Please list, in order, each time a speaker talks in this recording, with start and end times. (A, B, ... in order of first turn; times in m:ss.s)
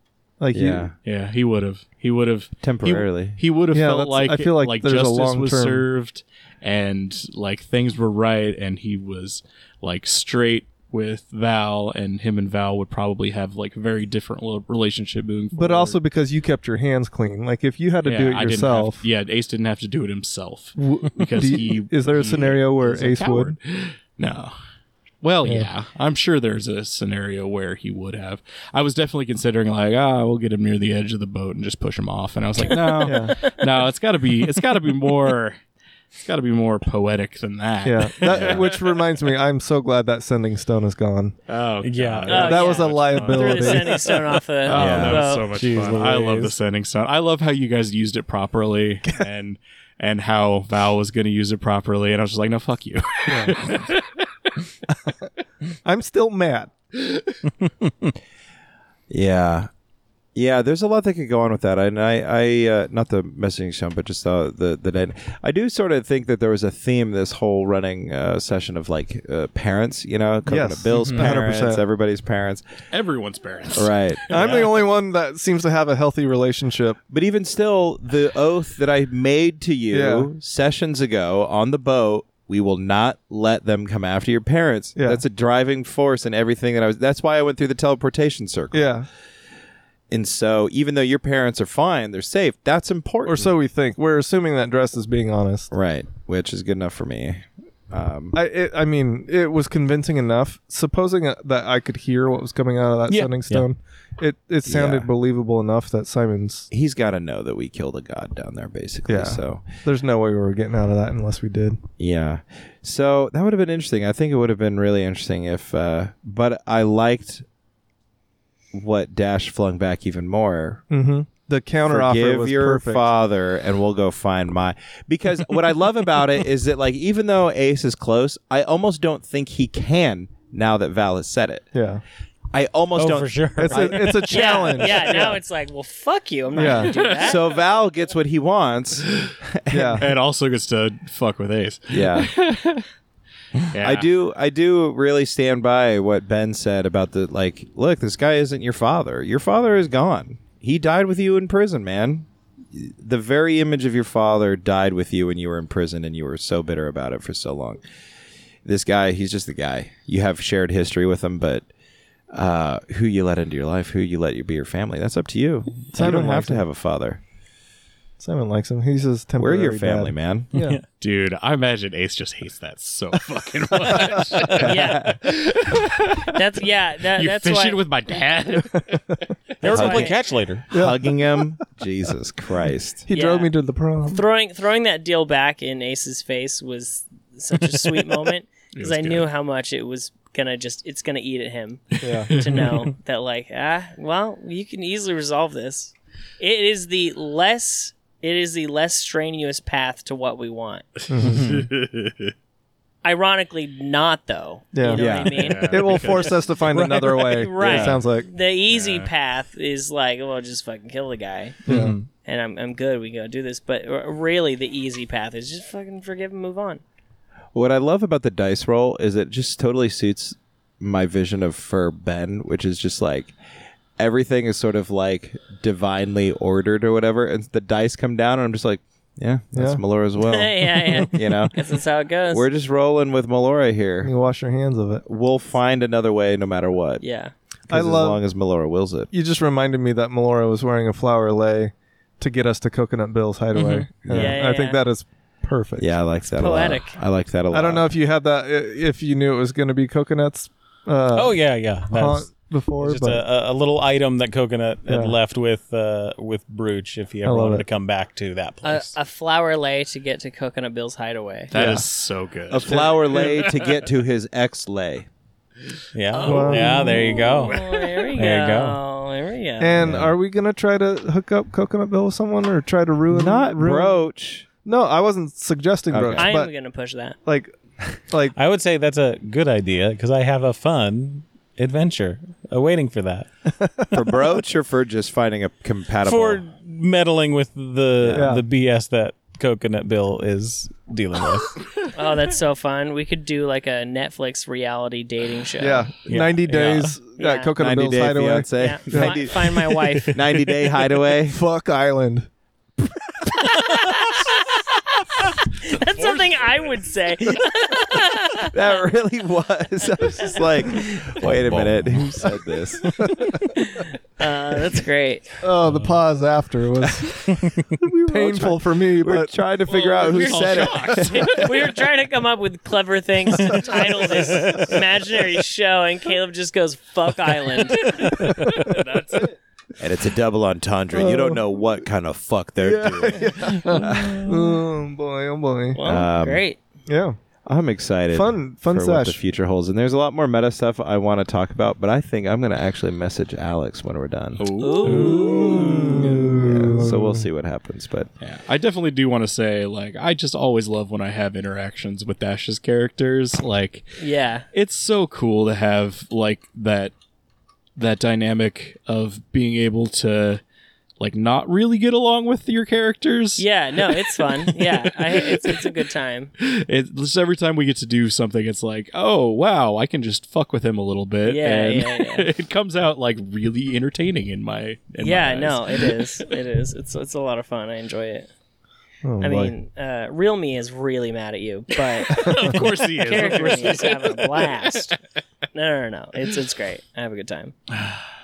0:00.4-0:00.9 A
0:00.5-0:01.0 B
0:01.0-0:16.0 C
0:02.6-0:03.4 B
0:03.7-0:05.9 A
0:15.5-0:19.0 A
0:18.0-0:24.6 C
0:20.8-0:23.6 A
0:25.2-0:35.6 C
0:32.7-0:33.6 D
0:33.0-0:33.4 A
0:36.2-0:38.8 C
0:37.8-0:41.4 A
0:38.3-0:38.7 B
0:41.5-0:54.2 C
0:41.8-0:42.3 E
0:42.3-0:44.0 A
0:42.3-0:45.6 D
0:44.7-0:45.2 B
0:45.6-0:46.5 E
0:53.3-0:53.6 A
0:55.8-0:56.7 A
0:59.1-0:59.7 B
1:00.4-1:12.6 B
1:10.5-1:11.8 A
1:11.0-1:11.3 E
1:12.9-1:14.8 C
1:13.8-1:14.6 B
1:14.3-1:17.0 A
1:17.1-1:28.9 B
1:19.9-1:20.3 A
1:25.0-1:25.2 A
1:28.7-1:29.1 A
1:30.1-1:33.5 B
1:33.2-1:35.7 A
1:35.7-1:38.4 B
1:38.3-1:46.7 A
1:44.7-1:45.1 B
1:46.7-1:49.7 B
1:49.1-1:51.8 A
1:52.0-1:57.4 B
1:58.7-2:00.8 B
2:00.9-2:03.1 A
2:01.8-2:11.7 B
2:11.7-2:12.0 A
2:12.5-2:14.3 B
2:13.0-2:13.9 E
2:13.6-2:15.4 A
2:14.3-2:17.4 D
2:16.6-2:16.9 A
2:16.7-2:17.3 C
2:17.2-2:19.1 B
2:19.6-2:20.1 B
2:19.7-2:20.1 A
2:20.0-2:22.9 C
2:21.9-2:22.3 B
2:23.7-2:24.1 C
2:23.8-2:37.8 B
2:38.7-2:41.7 B
2:42.3-2:47.2 B
2:45.9-2:46.7 A
2:48.2-2:50.8 A
2:49.4-2:50.5 B
2:50.6-2:50.8 E
2:51.0-2:56.4 C
2:54.6-2:55.1 D
2:56.3-2:57.8 D
2:57.1-2:59.3 C
2:59.6-3:00.6 E
2:59.6-3:00.2 D
2:59.7-3:00.1 B
3:00.7-3:03.0 B
3:00.7-3:01.5 A
3:03.0-3:04.2 A
3:03.1-3:03.5 D
3:04.1-3:20.8 D
3:08.8-3:09.3 C
3:12.0-3:12.3 A
3:12.3-3:12.9 C
3:21.1-3:21.6 A
3:21.2-3:22.3 C
3:21.3-3:21.6 E
3:23.0-3:26.1 D
3:24.7-3:28.3 A
3:25.0-3:25.4 B
3:25.2-3:26.4 C
3:26.7-3:27.3 E
3:27.1-3:31.6 D
3:27.6-3:28.0 B
3:28.7-3:29.1 C
3:31.7-3:32.0 A
3:31.7-3:32.1 E
3:32.2-3:36.8 D
3:37.5-3:43.3 B
3:44.0-3:51.6 B
3:49.5-3:49.8 A
3:50.2-3:52.5 D
3:52.3-3:54.1 B
3:54.0-3:55.0 A
3:55.0-3:57.0 B
3:57.0-3:57.3 D
3:57.7-3:58.2 A
3:57.7-3:59.1 B
3:59.1-4:06.0 A
4:03.5-4:03.9 E
4:04.1-4:04.4 B
4:04.1-4:04.8 D
4:05.8-4:07.9 B
4:06.4-4:07.0 D
4:07.5-4:13.3 A
4:11.1-4:12.3 E
4:12.8-4:19.0 E
4:14.8-4:15.2 A
4:17.2-4:17.7 A
4:18.6-4:21.5 D
4:21.5-4:23.8 C
4:22.5-4:25.1 B
4:25.9-4:27.6 E
4:26.1-4:28.2 C
4:26.2-4:27.3 A
4:26.5-4:29.9 D
4:28.2-4:28.8 E
4:29.6-4:34.0 A
4:29.8-4:30.2 B
4:33.1-4:34.5 B
4:34.6-4:36.5 A
4:35.9-4:36.3 B
4:36.2-4:37.2 D
4:37.2-4:37.6 A
4:38.1-4:38.4 A
4:38.3-4:43.3 E
4:43.6-4:44.0 A
4:43.9-4:46.4 B
4:46.1-4:51.5 E
4:48.0-4:48.4 B
4:48.2-4:48.5 A
4:51.9-4:55.9 D
4:55.6-4:59.2 A
4:56.1-4:57.0 E
4:57.2-4:57.5 D
4:57.6-5:01.4 B
4:58.6-5:00.2 D
5:00.2-5:00.7 E
5:01.3-5:02.3 A
5:03.4-5:04.7 D
5:05.2-5:08.8 D
5:08.5-5:13.0 B
5:10.2-5:10.9 D
5:11.3-5:12.0 E
5:13.1-5:13.4 A
5:13.5-5:15.3 D
5:15.4-5:19.4 A
5:15.7-5:16.0 C
5:18.0-5:21.3 B
5:19.7-5:28.3 D
5:19.7-5:21.7 C
5:23.5-5:24.4 C
5:27.8-5:29.4 C
5:28.2-5:28.5 A
5:29.8-5:34.2 B
5:30.9-5:31.5 A
5:32.6-5:35.8 A
5:35.7-5:36.6 D
5:35.8-5:36.4 B
5:36.9-5:37.2 A
5:37.5-5:44.4 B
5:38.1-5:39.2 A
5:44.4-5:46.0 C
5:44.6-5:46.2 D
5:44.8-5:47.3 A
5:46.4-5:48.1 B
5:48.2-5:54.0 C
5:54.0-5:54.5 D
5:54.5-5:56.9 C
5:57.8-6:00.4 C
6:01.0-6:05.6 C
6:03.4-6:06.3 D
6:06.4-6:16.2 C
6:11.2-6:12.3 D
6:15.0-6:18.3 D
6:19.0-6:19.5 A
6:19.2-6:25.0 D
6:22.1-6:24.8 C
6:25.5-6:27.5 D
6:27.8-6:28.0 C